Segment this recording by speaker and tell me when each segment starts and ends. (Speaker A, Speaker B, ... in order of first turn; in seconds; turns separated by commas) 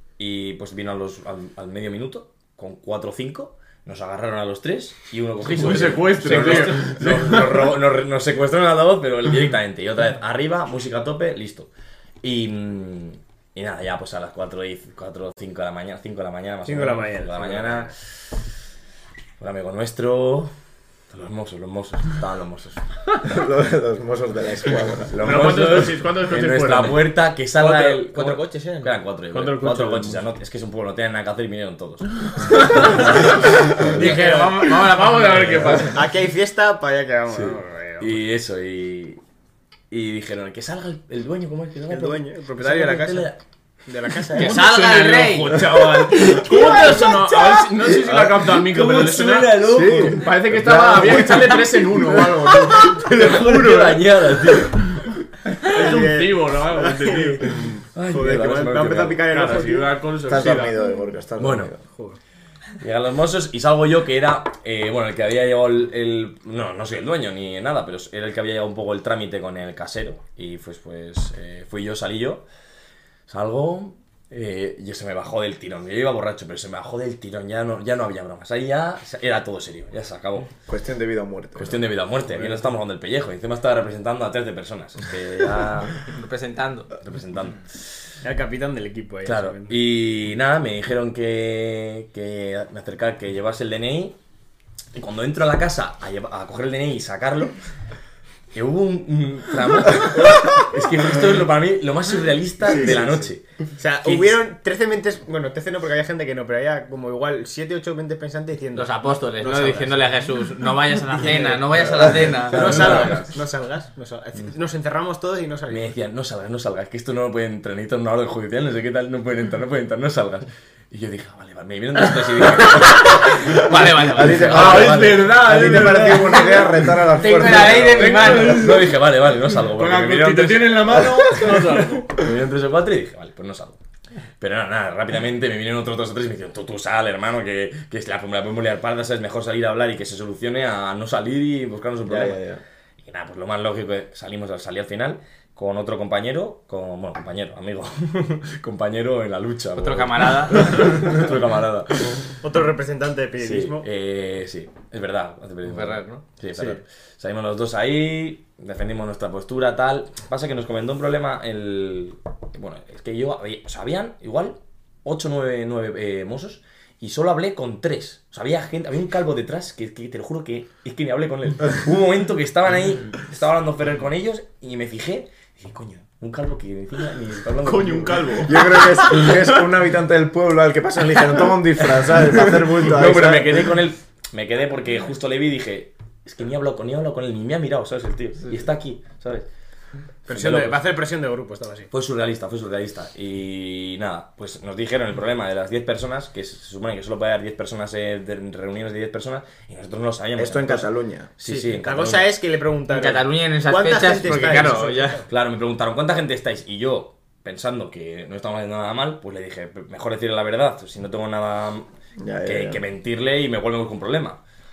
Speaker A: 0.2-11.7, Speaker B: 5.4-7.7, Speaker A: 12.2-17.9, Speaker C: 16.6-17.9, Speaker A: 19.4-20.5, Speaker A: 21.1-22.8, Speaker D: 23.2-25.9, Speaker A: 25.2-34.2, Speaker B: 25.2-27.1, Speaker C: 27.6-28.9, Speaker B: 29.3-30.2, Speaker B: 32.5-36.0, Speaker E: 33.8-35.9, Speaker A: 35.4-35.8, Speaker C: 35.9-38.2, Speaker A: 37.3-39.2, Speaker A: 39.9-43.4, Speaker C: 41.9-43.3, Speaker C: 43.9-44.6, Speaker E: 44.4-45.6, Speaker B: 44.4-54.0, Speaker A: 45.6-50.4, Speaker D: 49.6-52.4, Speaker A: 52.8-55.0, Speaker B: 55.5-57.8, Speaker C: 55.7-57.5, Speaker A: 57.9-59.5, Speaker C: 58.0-59.9, Speaker B: 59.3-60.8, Speaker D: 60.2-61.8, Speaker A: 61.4-61.7, Speaker C: 61.9-62.2, Speaker A: 62.8-72.4, Speaker A: 73.3-80.5, Speaker D: 80.7-81.8, Speaker A: 81.6-86.1, Speaker E: 86.0-86.9, Speaker A: 87.0-87.8, Speaker C: 88.2-89.8, Speaker A: 89.2-94.2, Speaker A: 94.9-97.5, Speaker A: 98.5-103.4, Speaker C: 103.8-110.2, Speaker A: 104.0-104.4, Speaker E: 108.7-113.0, Speaker C: 111.1-111.8, Speaker A: 112.3-113.3, Speaker C: 112.5-115.9, Speaker B: 112.6-113.2, Speaker A: 115.7-125.5, Speaker E: 122.6-125.0, Speaker D: 124.1-128.4, Speaker B: 124.4-128.9, Speaker E: 127.1-128.7, Speaker A: 127.6-133.8, Speaker B: 129.7-132.1, Speaker A: 134.4-142.4, Speaker D: 142.0-142.6, Speaker A: 143.0-152.3, Speaker E: 149.8-151.1, Speaker C: 152.4-153.8, Speaker A: 153.4-178.3, Speaker E: 155.6-156.2, Speaker B: 177.6-179.4, Speaker D: 178.4-183.8, Speaker A: 182.2-189.5, Speaker A: 190.3-190.8, Speaker C: 190.3-191.9, Speaker A: 191.9-202.3, Speaker D: 200.4-201.3, Speaker C: 201.4-205.3, Speaker E: 202.9-205.2, Speaker A: 204.3-204.7, Speaker A: 205.3-211.9, Speaker D: 212.2-212.8, Speaker A: 212.4-214.4